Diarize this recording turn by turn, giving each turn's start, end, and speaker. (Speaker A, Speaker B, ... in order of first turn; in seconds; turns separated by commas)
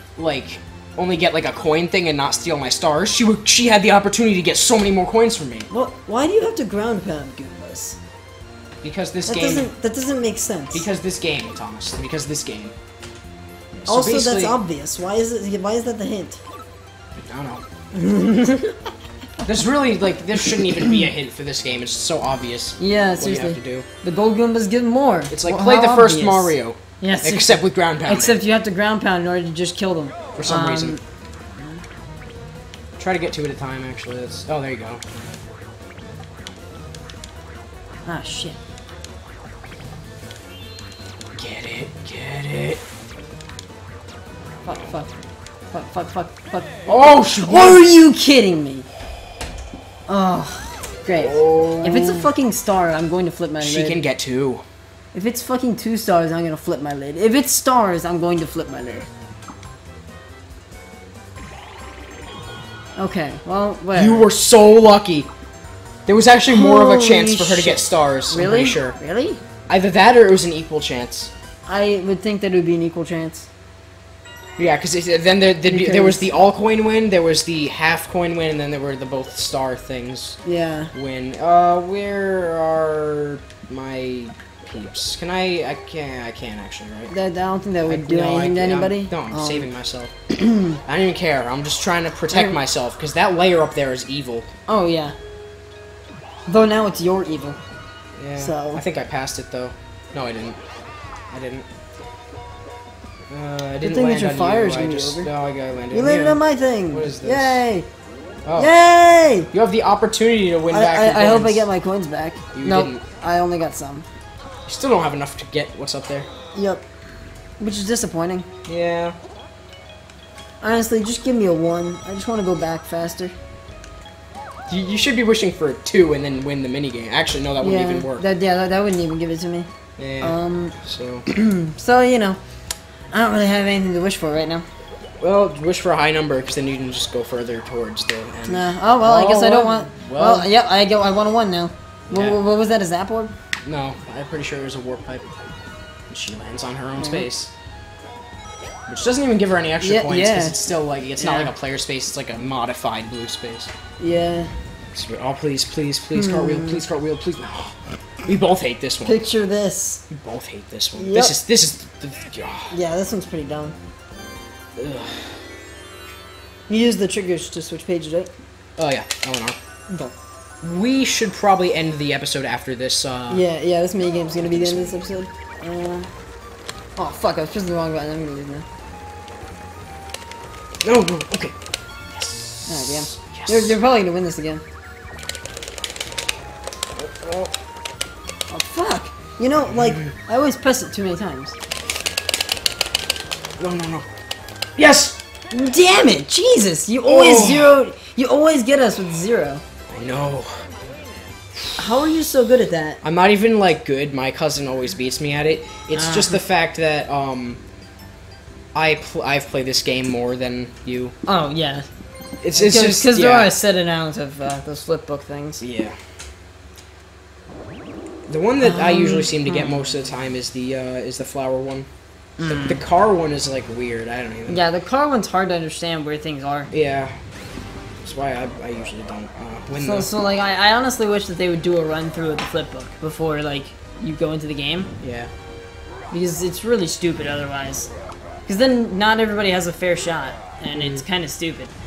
Speaker A: 0.2-5.7, Speaker B: 5.7-8.0, Speaker A: 8.8-9.7, Speaker B: 9.3-10.8, Speaker A: 10.7-12.7, Speaker A: 13.8-14.6, Speaker B: 13.9-16.4, Speaker A: 17.2-17.6, Speaker B: 17.9-18.8, Speaker A: 19.4-23.9, Speaker B: 20.5-20.9, Speaker B: 22.8-31.0, Speaker A: 25.3-28.4, Speaker A: 30.4-31.0, Speaker A: 33.0-35.0, Speaker B: 38.0-38.6, Speaker A: 41.4-42.8, Speaker B: 44.6-45.1, Speaker B: 45.7-48.9, Speaker A: 46.9-47.9, Speaker B: 50.1-54.0, Speaker A: 51.2-52.3, Speaker A: 53.6-54.6, Speaker B: 55.1-59.1, Speaker B: 63.0-64.3, Speaker A: 63.9-65.3, Speaker A: 66.1-69.0, Speaker B: 66.5-69.4, Speaker A: 69.7-71.3, Speaker B: 71.7-73.5, Speaker A: 74.6-80.4, Speaker B: 75.7-76.3, Speaker B: 80.4-80.9, Speaker A: 80.9-87.1, Speaker B: 87.1-89.7, Speaker A: 87.9-90.1, Speaker B: 90.3-90.8, Speaker A: 90.8-94.5, Speaker B: 92.3-92.6, Speaker B: 94.7-95.2, Speaker B: 96.5-97.6, Speaker A: 98.2-100.6, Speaker B: 98.4-98.8, Speaker A: 101.3-101.7, Speaker A: 103.3-106.4, Speaker B: 103.8-105.3, Speaker B: 105.9-107.9, Speaker A: 106.9-107.6, Speaker A: 108.5-108.7, Speaker B: 108.6-109.5, Speaker A: 109.5-111.7, Speaker B: 110.7-114.1, Speaker A: 112.5-113.0, Speaker A: 114.7-116.3, Speaker B: 116.5-116.8, Speaker B: 117.6-118.5, Speaker A: 118.7-119.2, Speaker B: 120.6-123.3, Speaker A: 124.7-128.2, Speaker B: 127.6-129.7, Speaker A: 130.0-131.3, Speaker B: 130.2-130.8, Speaker B: 131.3-132.4, Speaker B: 133.1-134.7, Speaker A: 135.2-140.5, Speaker B: 138.5-143.3, Speaker A: 142.1-142.4, Speaker A: 143.7-145.2, Speaker A: 146.1-147.5, Speaker B: 147.0-147.3, Speaker A: 148.9-153.7, Speaker B: 149.8-150.6, Speaker B: 151.2-151.5, Speaker B: 154.0-154.5, Speaker A: 154.9-159.2, Speaker B: 156.1-156.8, Speaker B: 159.1-160.0, Speaker A: 160.1-162.7, Speaker B: 161.0-161.3, Speaker B: 162.7-163.8, Speaker A: 164.8-165.4, Speaker B: 166.7-168.3, Speaker A: 168.8-169.6, Speaker A: 170.6-173.4, Speaker B: 173.3-176.1, Speaker A: 174.4-175.0, Speaker B: 177.0-178.7, Speaker A: 180.8-181.6, Speaker A: 182.1-183.8, Speaker B: 182.7-184.6, Speaker A: 187.0-187.5, Speaker B: 188.5-191.6, Speaker A: 189.7-190.1, Speaker A: 193.6-194.1, Speaker A: 194.8-195.2, Speaker B: 195.5-199.6, Speaker A: 197.1-197.8, Speaker A: 199.9-200.7, Speaker B: 201.8-203.0, Speaker A: 203.0-207.6, Speaker B: 205.9-206.4, Speaker A: 208.7-211.1, Speaker B: 211.3-211.9, Speaker A: 212.4-213.5, Speaker B: 212.5-215.6, Speaker A: 215.6-216.0, Speaker A: 218.3-221.9, Speaker B: 218.6-219.8, Speaker B: 222.4-222.8, Speaker A: 222.4-224.6, Speaker B: 224.5-226.7, Speaker A: 226.7-227.2, Speaker A: 228.0-230.1, Speaker B: 229.8-234.9, Speaker A: 235.0-235.3, Speaker B: 236.1-237.9, Speaker B: 238.5-241.7, Speaker A: 240.7-241.0